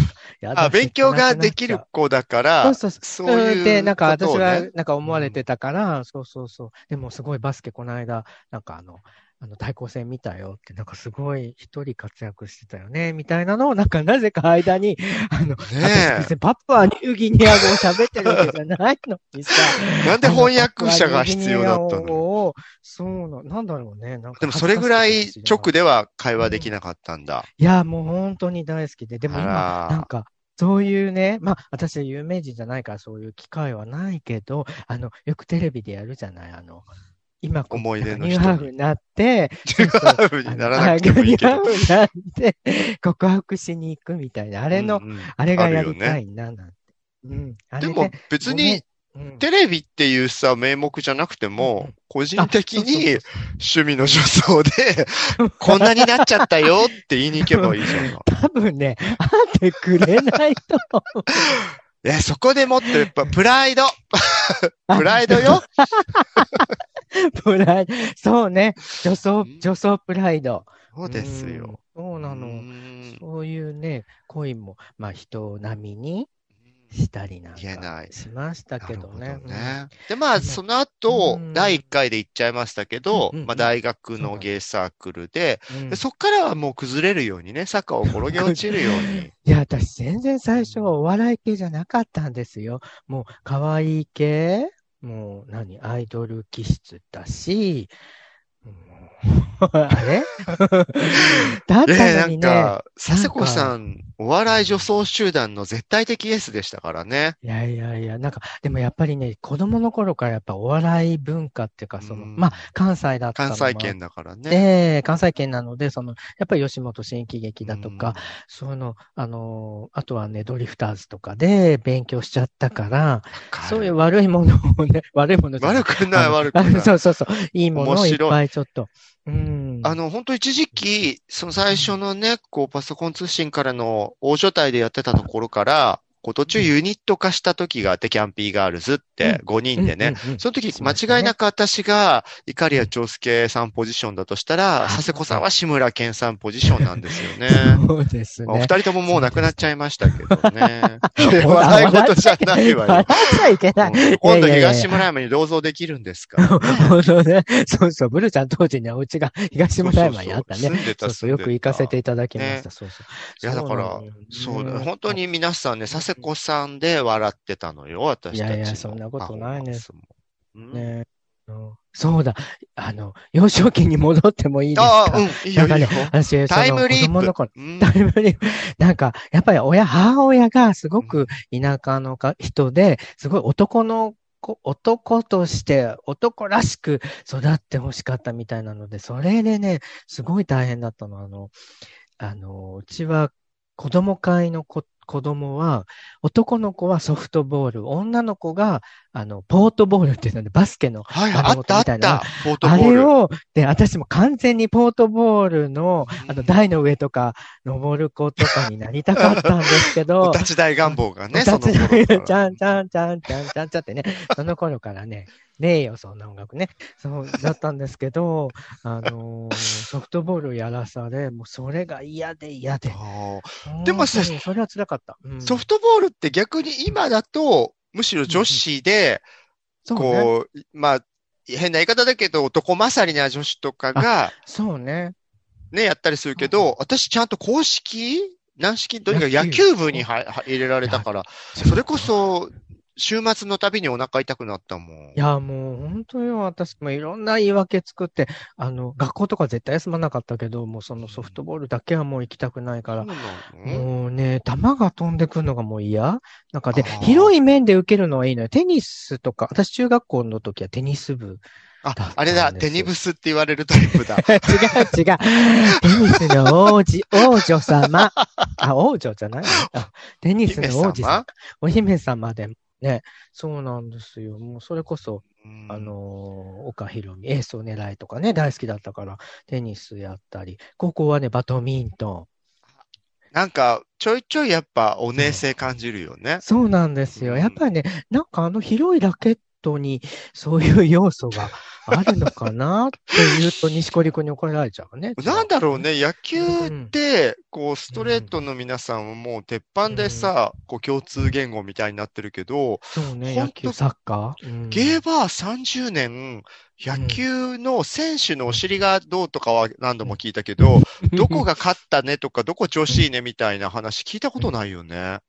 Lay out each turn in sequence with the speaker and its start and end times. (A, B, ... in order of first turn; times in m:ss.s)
0:00.4-0:01.8 A
0:00.5-0:05.4 B
0:02.6-0:25.7 A
0:15.6-0:16.3 B
0:20.0-0:22.2 B
0:24.4-0:27.5 B
0:26.4-0:26.7 A
0:27.6-0:36.9 A
0:29.2-0:30.1 B
0:37.4-0:49.4 A
0:37.7-0:38.7 B
0:39.6-0:41.7 B
0:44.7-0:46.2 B
0:47.8-0:48.8 B
0:49.4-0:58.2 B
0:51.6-0:53.3 A
0:55.4-0:56.5 A
0:57.4-1:01.6 A
1:02.0-1:05.6 B
1:04.9-1:16.3 A
1:10.9-1:13.2 B
1:16.9-1:19.8 A
1:17.6-1:18.1 B
1:18.8-1:29.3 B
1:20.4-1:21.8 A
1:23.1-1:24.5 A
1:25.7-1:26.0 A
1:28.1-1:37.9 A
1:30.6-1:30.9 B
1:38.6-1:43.8 A
1:41.4-1:47.4 B
1:44.5-1:44.8 A
1:47.4-1:54.0 A
1:52.0-1:52.7 B
1:53.3-1:54.6 B
1:54.5-2:10.0 A
1:57.6-1:58.3 B
2:03.4-2:04.0 B
2:05.6-2:07.0 B
2:07.7-2:08.4 B
2:09.8-2:27.8 B
2:11.7-2:12.0 A
2:19.2-2:21.3 A
2:24.8-2:25.4 A
2:26.6-2:27.0 A
2:27.5-2:35.0 A
2:28.4-2:37.0 B
2:36.4-2:45.2 A
2:39.8-2:42.7 B
2:43.4-2:50.9 B
2:45.9-2:46.2 A
2:48.3-2:49.8 A
2:50.7-3:11.5 A
2:54.8-2:58.0 B
3:01.0-3:01.3 B
3:12.2-3:43.0 A
3:21.1-3:23.1 B
3:26.1-3:26.6 B
3:30.2-3:32.7 B
3:42.9-3:44.4 B
3:43.6-3:45.7 A
3:45.4-3:49.2 B
3:48.3-3:48.6 A
3:49.8-3:50.3 A
3:49.9-3:54.3 B
3:53.9-3:55.2 A
3:55.7-4:05.2 B
3:56.4-3:56.7 A
3:59.1-4:00.1 A
4:00.8-4:02.1 A
4:05.1-4:13.1 A
4:11.0-4:11.4 B
4:12.9-4:13.9 B
4:13.6-4:21.4 A
4:16.7-4:17.3 B
4:21.8-4:24.9 B
4:21.9-4:22.9 A
4:23.7-4:42.3 A
4:25.9-4:26.5 B
4:28.2-4:28.5 B
4:30.4-4:31.2 B
4:35.4-4:35.9 B
4:43.3-4:46.4 B
4:45.2-4:45.4 A
4:46.4-4:56.9 A
4:47.1-4:47.6 B
4:55.2-5:03.8 B
4:57.9-4:58.4 A
4:59.8-5:00.3 A
5:02.9-5:05.0 A
5:04.7-5:15.2 B
5:06.9-5:07.2 A
5:10.0-5:11.4 A